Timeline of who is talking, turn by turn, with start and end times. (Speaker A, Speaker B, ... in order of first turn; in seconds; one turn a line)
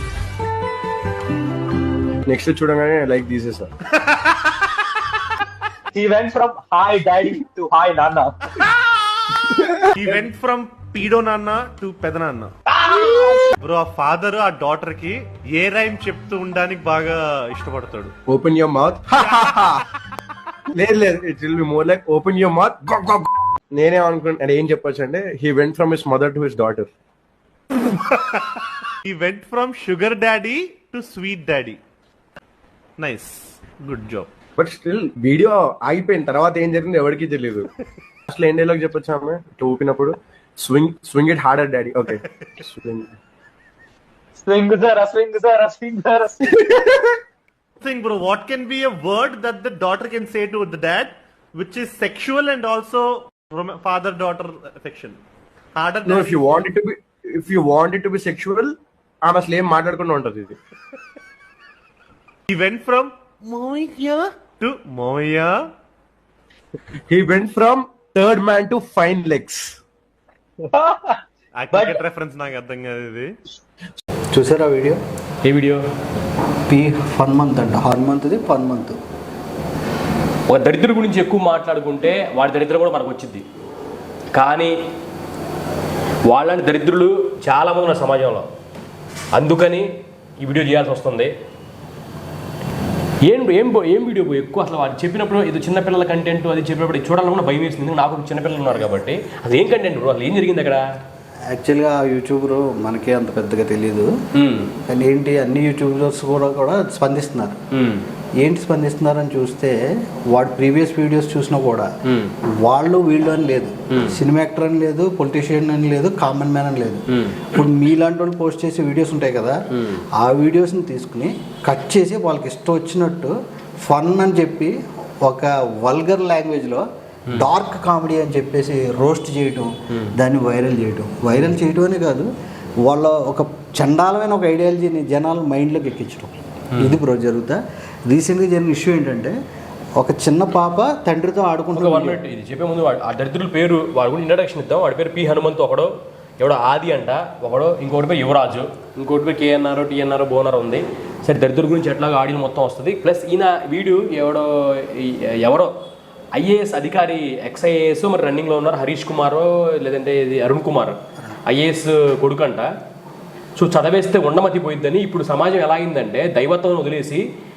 Speaker A: 2.3-3.7
Speaker B: 5.9-8.3
Speaker A: 9.5-9.9
Speaker C: 9.9-12.5
Speaker B: 12.7-13.5
Speaker C: 13.6-18.1
Speaker A: 18.3-19.8
Speaker C: 19.2-19.5
Speaker A: 20.7-26.9
Speaker C: 27.9-31.8
Speaker C: 33.0-34.3
Speaker A: 34.6-37.7
Speaker A: 38.3-43.1
Speaker B: 44.4-46.6
Speaker A: 46.6-47.1
Speaker C: 47.8-55.2
Speaker C: 55.8-56.4
Speaker A: 56.0-60.6
Speaker C: 62.5-65.7
Speaker A: 67.1-69.8
Speaker B: 70.6-71.2
Speaker C: 71.6-73.3
Speaker B: 71.7-72.0
Speaker D: 74.3-75.0
Speaker E: 75.4-75.8
Speaker D: 76.7-79.0
Speaker E: 80.5-83.4
Speaker E: 84.3-84.8
Speaker E: 86.3-88.5
Speaker E: 89.3-89.9
Speaker E: 90.4-91.3
Speaker E: 93.2-100.8
Speaker D: 101.5-104.1
Speaker E: 104.3-104.7
Speaker D: 104.9-107.6
Speaker E: 107.7-108.0
Speaker D: 108.4-111.9
Speaker E: 112.0-112.3
Speaker D: 112.4-132.3
Speaker E: 113.9-114.2
Speaker E: 117.1-117.5
Speaker E: 119.7-120.0
Speaker D: 132.8-139.3
Speaker D: 140.0-142.2
Speaker E: 141.7-155.7
Speaker E: 156.3-162.7
Speaker E: 163.6-167.2